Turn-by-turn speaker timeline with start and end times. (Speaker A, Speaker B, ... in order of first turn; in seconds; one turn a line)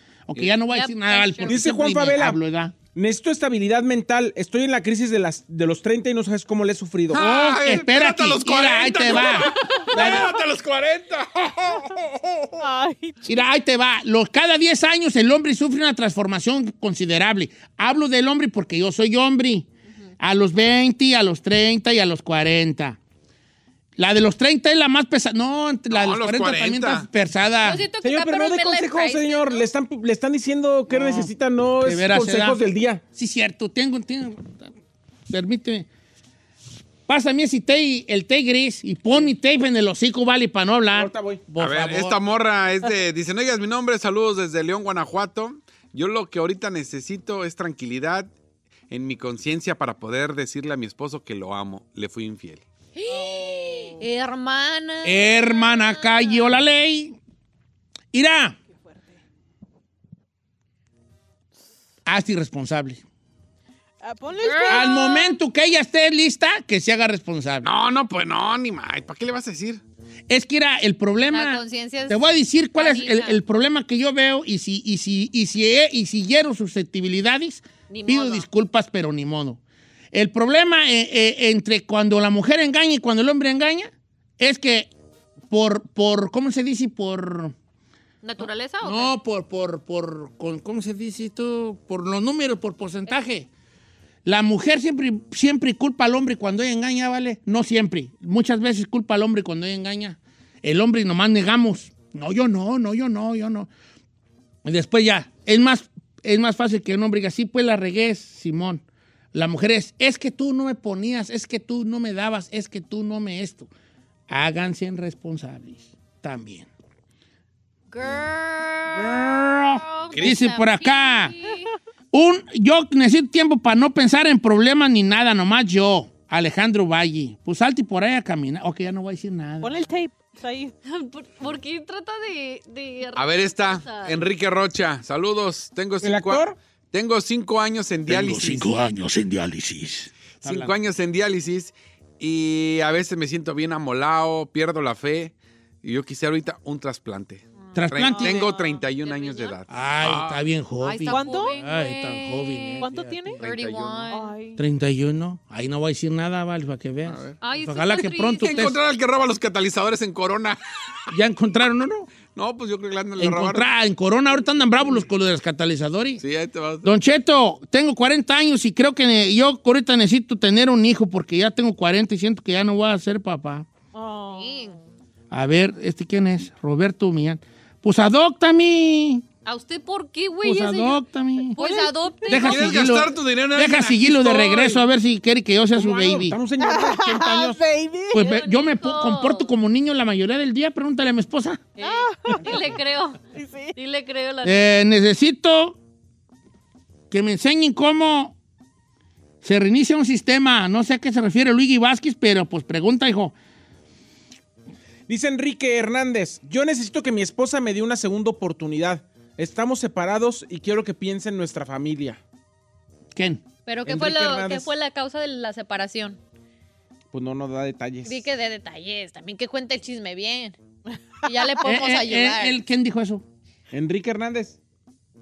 Speaker A: 0.3-2.8
Speaker B: 0.4-1.6
Speaker C: 1.5-2.4
Speaker C: 2.9-7.2
Speaker D: 7.1-12.6
Speaker A: 7.1-10.3
Speaker E: 9.4-10.3
Speaker E: 12.6-13.3
Speaker A: 13.2-19.7
Speaker A: 20.2-23.0
Speaker A: 24.0-27.8
Speaker D: 25.9-27.1
Speaker B: 27.6-29.7
Speaker C: 28.0-33.0
Speaker A: 30.9-34.7
Speaker A: 35.3-35.9
Speaker A: 37.1-42.2
Speaker C: 40.9-41.4
Speaker D: 41.6-48.3
Speaker D: 48.9-52.6
Speaker B: 53.0-56.6
Speaker E: 53.1-54.0
Speaker A: 55.0-57.2
Speaker A: 58.1-58.6
Speaker E: 58.7-59.2
Speaker A: 62.1-63.0
Speaker E: 64.0-65.2
Speaker B: 64.4-65.2
Speaker A: 64.7-67.7
Speaker D: 67.6-69.8
Speaker A: 70.3-79.6
Speaker B: 71.3-73.4
Speaker B: 77.9-78.5
Speaker A: 80.1-84.9
Speaker A: 85.5-87.5
Speaker B: 88.2-89.1
Speaker A: 88.8-93.5
Speaker A: 94.2-103.7
Speaker A: 104.7-108.8
Speaker A: 109.3-113.7
Speaker A: 114.3-116.7
Speaker B: 117.9-121.7
Speaker A: 119.0-121.3
Speaker D: 120.1-120.4
Speaker A: 122.1-129.8
Speaker E: 129.6-130.7
Speaker B: 130.8-134.2
Speaker D: 133.2-138.8
Speaker C: 136.0-136.6
Speaker A: 138.1-140.7
Speaker D: 140.4-150.5
Speaker A: 147.8-148.4
Speaker E: 148.0-148.8
Speaker B: 148.9-149.6
Speaker A: 149.7-153.4
Speaker B: 150.8-154.4
Speaker E: 151.1-151.6
Speaker E: 152.8-153.4
Speaker D: 153.4-154.1
Speaker E: 154.1-154.6
Speaker A: 154.6-158.8
Speaker D: 157.1-157.4
Speaker B: 157.4-158.7
Speaker D: 158.4-160.6
Speaker A: 161.1-162.1
Speaker D: 162.3-163.7
Speaker A: 163.2-166.2
Speaker D: 166.2-166.9
Speaker A: 166.8-173.7
Speaker E: 173.9-174.7
Speaker B: 174.3-174.8
Speaker A: 175.3-179.2
Speaker B: 179.4-181.0
Speaker A: 180.4-181.6
Speaker E: 181.6-182.1
Speaker B: 181.6-182.9
Speaker A: 182.3-186.4
Speaker D: 182.3-184.7
Speaker C: 184.5-184.8
Speaker C: 185.8-187.6
Speaker E: 186.6-188.3
Speaker A: 188.1-191.7
Speaker B: 188.2-189.5
Speaker E: 191.8-192.7
Speaker B: 191.8-193.2
Speaker E: 193.3-193.8
Speaker B: 193.8-194.8
Speaker A: 194.4-195.8
Speaker A: 197.1-198.3
Speaker A: 199.4-203.3
Speaker C: 205.1-212.2
Speaker A: 213.2-213.4
Speaker B: 213.7-216.2
Speaker C: 213.9-214.7
Speaker C: 217.1-218.2
Speaker B: 218.1-220.6
Speaker B: 221.2-222.6
Speaker A: 221.6-223.2
Speaker C: 223.7-224.6